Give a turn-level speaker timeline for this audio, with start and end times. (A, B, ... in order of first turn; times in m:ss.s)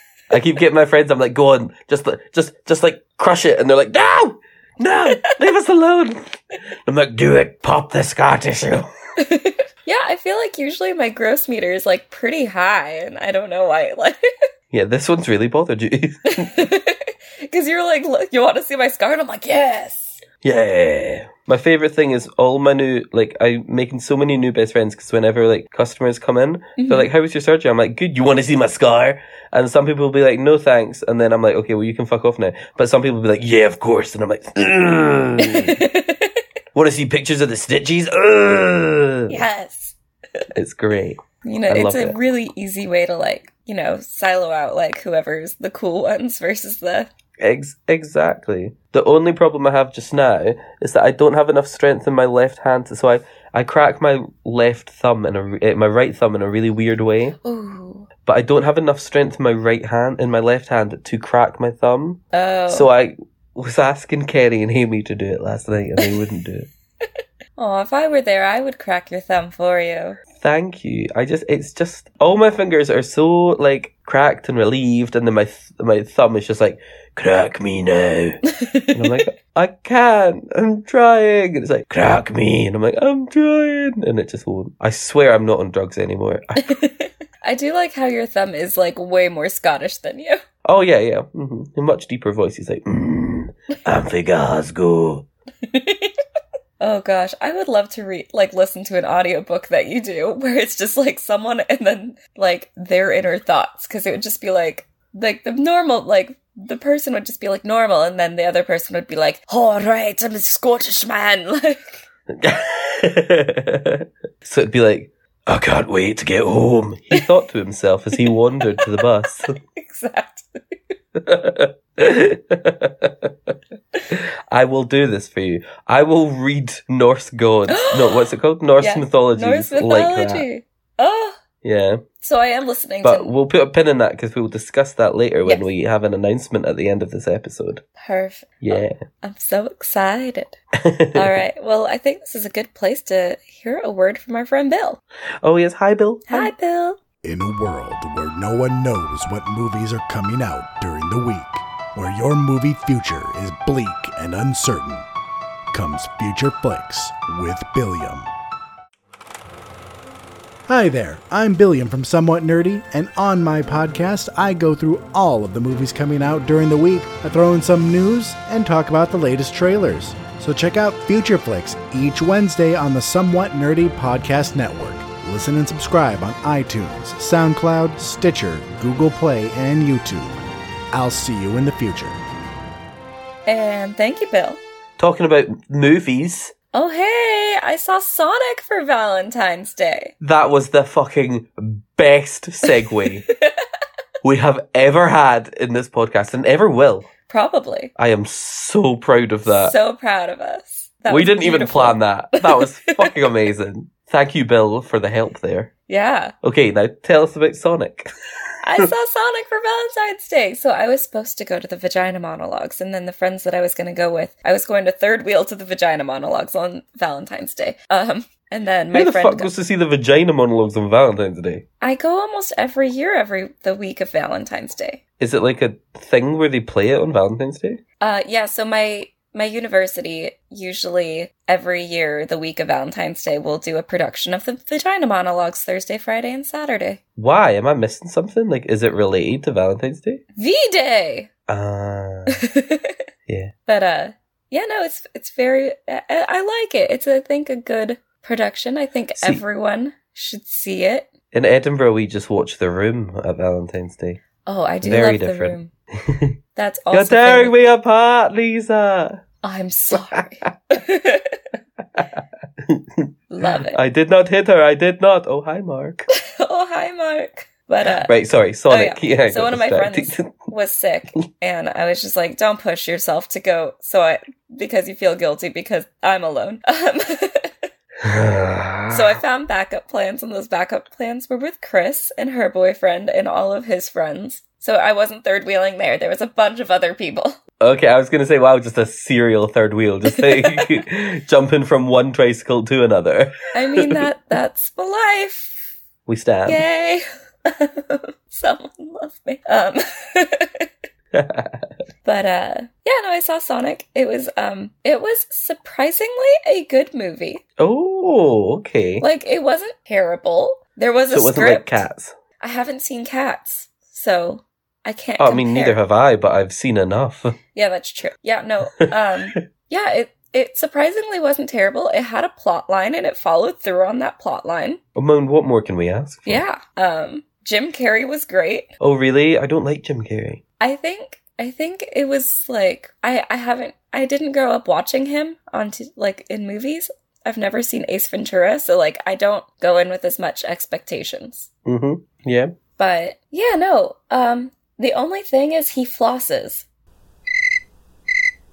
0:00.3-0:08.9 A
0:05.1-0:05.3 B
0:09.2-0:14.2 B
0:14.7-0:16.6 A
0:16.3-0:20.2 B
0:20.4-0:35.8 A
0:26.8-0:27.1 B
0:35.4-0:36.4 B
0:36.7-0:39.4 A
0:39.3-0:40.4 B
0:40.5-0:42.2 A
0:41.4-0:47.1 B
0:47.4-0:57.4 A
0:57.4-0:58.1 B
0:58.2-1:06.7 A
1:02.3-1:02.9 B
1:06.0-1:06.2 B
1:07.0-1:10.2 B
1:10.4-1:18.4 A
1:18.5-1:19.2 B
1:18.9-1:26.7 A
1:26.6-1:30.4 B
1:30.6-1:35.3 A
1:35.6-1:36.2 B
1:36.8-1:52.0 B
1:52.3-1:59.5 A
1:58.2-2:00.7 B
2:01.2-2:03.5 A
2:04.1-2:10.4 A
2:07.7-2:11.4 B
2:11.6-2:12.0 A
2:12.2-2:13.3 B
2:13.0-2:17.8 A
2:18.0-2:20.6 B
2:18.6-2:19.0 A
2:20.8-2:21.4 A
2:21.1-2:25.0 B
2:25.4-2:26.5 A
2:26.3-2:27.0 B
2:27.2-2:35.1 C
2:35.7-2:38.3 C
2:40.7-3:00.4 C
3:00.9-3:02.2 C
3:03.4-3:04.6 B
3:05.0-3:06.5 A
3:06.7-3:10.1 B
3:10.2-3:13.2 A
3:12.7-3:13.6 B
3:14.2-3:17.1 A
3:17.3-3:17.9 B
3:18.0-3:19.7 A
3:19.4-3:23.3 B
3:21.1-3:25.7 A
3:25.9-3:26.3 B
3:26.4-3:28.1 A
3:28.6-3:39.5 B
3:38.9-3:41.6 A
3:41.8-3:45.0 B
3:45.2-3:47.8 A
3:48.0-3:57.0 B
3:57.2-4:00.2 A
4:00.4-4:01.3 B
4:01.5-4:02.4 A
4:02.3-4:03.0 B
4:03.3-4:03.5 A
4:03.7-4:11.1 B
4:09.2-4:09.4 A
4:11.3-4:14.2 A
4:14.4-4:15.7 B
4:14.8-4:16.3 A
4:16.6-4:17.6 B
4:16.9-4:19.2 A
4:19.4-4:21.4 B
4:19.9-4:20.2 A
4:21.9-4:23.0 A
4:23.3-4:23.8 B
4:23.7-4:26.0 A
4:26.1-4:28.1 B
4:28.0-4:30.3 A
4:28.7-4:37.5 B
4:38.0-4:39.2 A
4:38.9-4:47.4 B
4:47.6-4:54.0 A
4:50.1-4:50.8 B
4:53.5-4:55.7 B
4:56.0-4:56.6 A
4:56.4-5:00.7 B
5:01.1-5:01.7 A
5:02.0-5:07.4 B
5:07.6-5:09.0 A
5:09.0-5:11.8 B
5:11.1-5:12.1 A
5:12.4-5:15.8 B
5:15.2-5:17.4 A
5:17.5-5:24.8 B
5:18.8-5:19.4 A
5:24.9-5:26.4 A
5:26.3-5:28.7 B
5:28.8-5:30.4 A
5:30.6-5:41.5 B
5:41.6-5:42.5 A
5:42.8-5:46.6 B